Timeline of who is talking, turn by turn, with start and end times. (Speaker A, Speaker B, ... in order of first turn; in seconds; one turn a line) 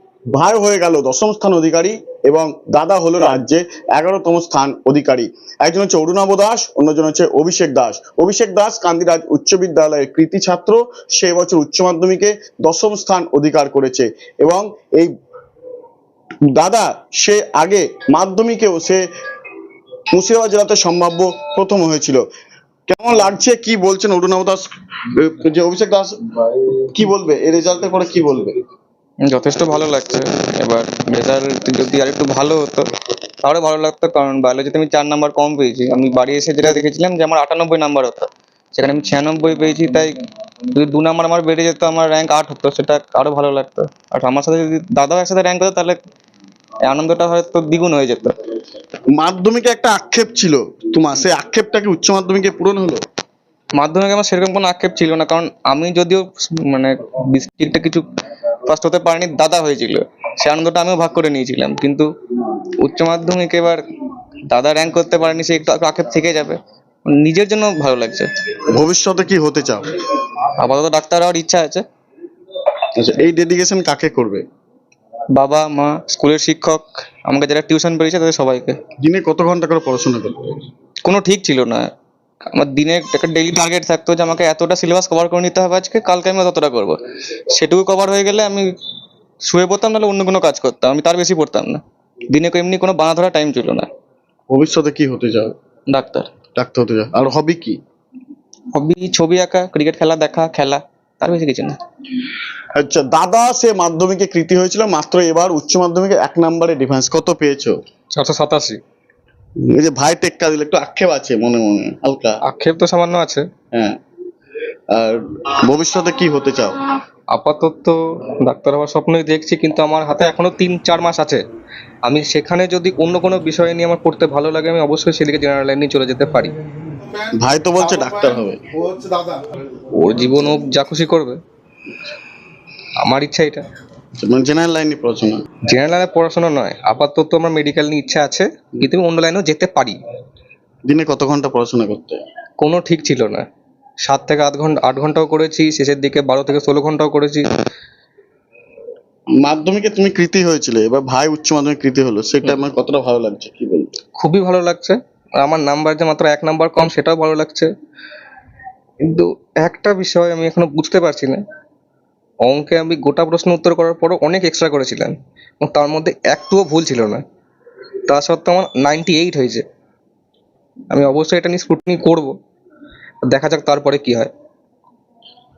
Speaker A: 0.3-15.1
Speaker A: 16.5-19.0
Speaker A: 20.1-22.2
Speaker A: 22.9-28.6
Speaker B: 29.2-32.9
Speaker B: 33.4-40.1
Speaker B: 40.7-46.0
Speaker B: 46.9-48.4
Speaker A: 49.2-53.0
Speaker B: 53.8-58.1
Speaker B: 58.6-62.1
Speaker B: 62.8-63.8
Speaker B: 64.5-68.3
Speaker A: 68.6-69.9
Speaker B: 70.5-71.8
Speaker A: 73.0-74.4
Speaker B: 75.3-78.8
Speaker A: 79.0-80.6
Speaker B: 81.0-81.9
Speaker B: 82.5-88.7
Speaker B: 89.5-93.9
Speaker A: 94.5-95.5
Speaker B: 95.9-96.3
Speaker A: 96.6-97.8
Speaker B: 98.7-101.8
Speaker A: 102.8-107.8
Speaker C: 108.1-108.8
Speaker A: 109.7-112.4
Speaker C: 112.5-113.5
Speaker A: 113.7-114.0
Speaker A: 114.9-116.9
Speaker C: 117.3-121.4
Speaker C: 122.1-126.6
Speaker A: 127.3-128.6
Speaker C: 129.9-131.4
Speaker C: 133.0-133.7
Speaker A: 134.2-135.4
Speaker C: 135.7-140.0
Speaker A: 140.9-142.2
Speaker C: 142.6-143.5
Speaker C: 144.0-147.5
Speaker A: 149.4-154.0
Speaker C: 154.2-157.7
Speaker C: 159.0-161.4
Speaker C: 162.4-167.2
Speaker C: 168.1-169.7
Speaker C: 170.9-172.3
Speaker C: 173.3-174.3